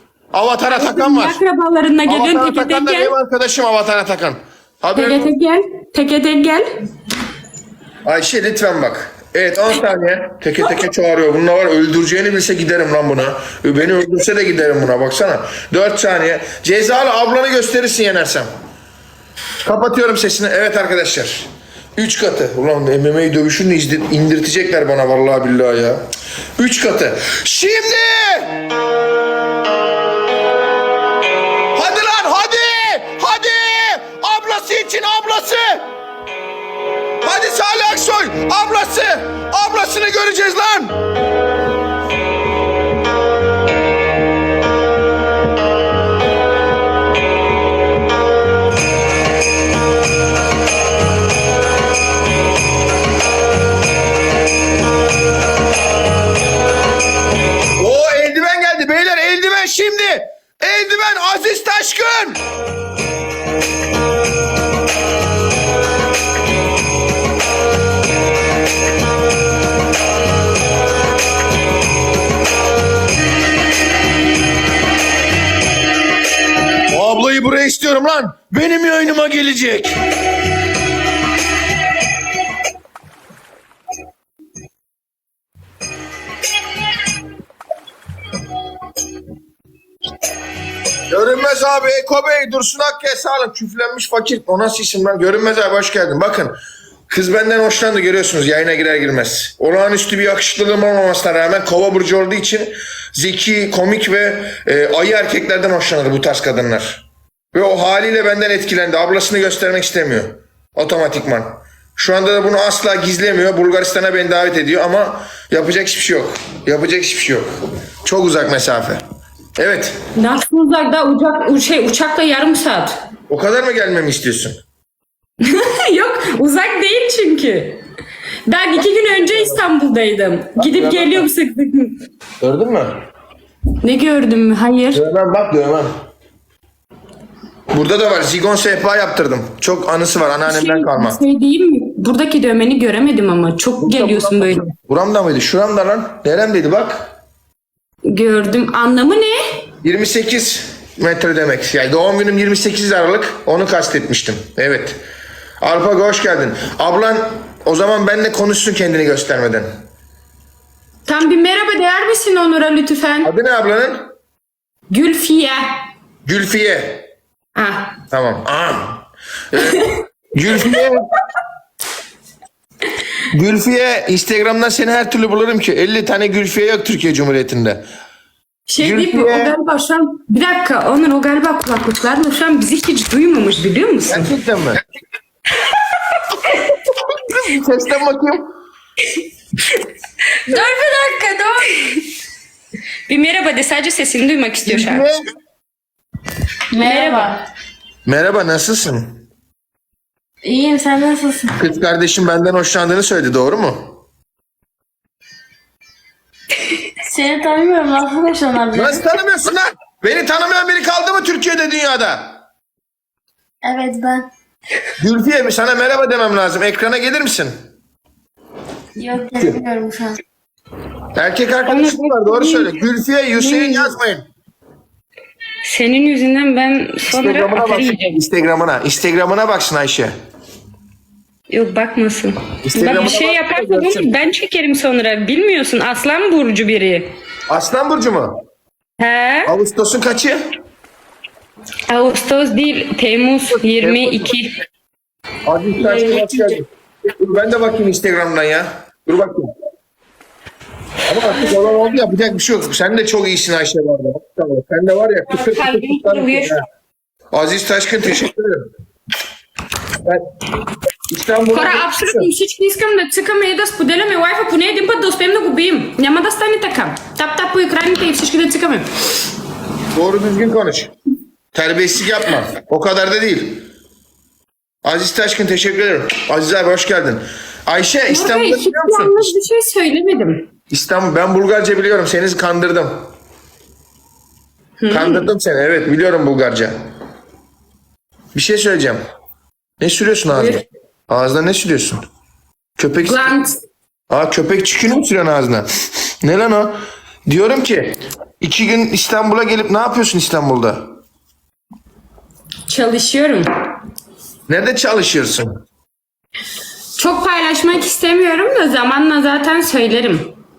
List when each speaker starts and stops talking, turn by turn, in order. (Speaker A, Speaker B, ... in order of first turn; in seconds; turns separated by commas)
Speaker A: 0.3-1.4, Speaker B: 0.7-3.1, Speaker A: 2.1-5.3, Speaker B: 4.9-6.8, Speaker A: 8.0-18.5, Speaker A: 19.6-26.0, Speaker A: 26.6-28.6, Speaker A: 31.7-35.9, Speaker A: 37.2-41.0, Speaker A: 57.8-62.4, Speaker A: 76.9-80.0, Speaker A: 91.1-96.6, Speaker A: 97.1-117.5, Speaker A: 118.0-119.0, Speaker A: 119.6-120.0, Speaker B: 120.2-123.0, Speaker A: 123.3-124.6, Speaker B: 125.4-127.8, Speaker B: 128.4-132.0, Speaker A: 129.1-129.6, Speaker A: 130.6-131.3, Speaker A: 132.4-133.0, Speaker B: 133.8-135.0, Speaker A: 134.9-135.9, Speaker A: 137.7-141.2, Speaker B: 140.4-144.7, Speaker A: 143.8-147.1, Speaker B: 148.1-149.4, Speaker A: 149.8-155.0, Speaker A: 155.6-159.7, Speaker B: 161.1-163.3, Speaker A: 163.2-164.1, Speaker B: 164.9-165.8, Speaker A: 166.2-167.1, Speaker B: 167.6-167.9, Speaker A: 168.1-171.1, Speaker A: 173.3-177.8, Speaker B: 178.7-184.3, Speaker A: 178.8-179.6, Speaker A: 184.1-184.8, Speaker A: 187.1-188.5, Speaker B: 190.5-191.1, Speaker C: 190.5-191.8, Speaker B: 193.1-195.1, Speaker A: 194.7-195.2, Speaker C: 196.7-197.4, Speaker B: 196.8-197.4, Speaker A: 198.1-199.2, Speaker C: 200.4-201.7, Speaker A: 201.6-204.0, Speaker C: 207.0-209.1, Speaker A: 208.7-212.4, Speaker C: 213.6-214.3, Speaker A: 215.0-217.6, Speaker C: 218.9-220.2, Speaker A: 221.1-224.3, Speaker B: 221.6-222.8, Speaker B: 223.3-223.9, Speaker B: 225.6-228.2, Speaker A: 227.0-230.1, Speaker B: 231.5-237.1, Speaker A: 232.7-234.2, Speaker A: 237.5-238.4, Speaker B: 239.0-239.5, Speaker A: 239.4-240.5, Speaker B: 241.9-244.6, Speaker A: 243.5-244.4, Speaker A: 245.4-249.5, Speaker B: 245.8-246.6, Speaker A: 251.1-256.6, Speaker B: 255.3-256.6, Speaker A: 257.3-258.7, Speaker A: 260.0-260.3, Speaker A: 261.1-262.3, Speaker B: 261.5-268.9, Speaker A: 269.9-270.9, Speaker A: 271.5-273.7, Speaker A: 274.8-279.4, Speaker B: 278.1-280.5, Speaker A: 280.7-283.1, Speaker B: 284.8-285.3, Speaker A: 284.9-286.8, Speaker A: 288.3-289.0, Speaker A: 289.8-292.1, Speaker B: 290.3-290.6, Speaker A: 292.8-293.4, Speaker B: 293.0-293.6, Speaker A: 294.1-295.7, Speaker A: 296.2-300.9, Speaker B: 302.7-303.5, Speaker A: 304.5-305.6, Speaker B: 306.9-310.3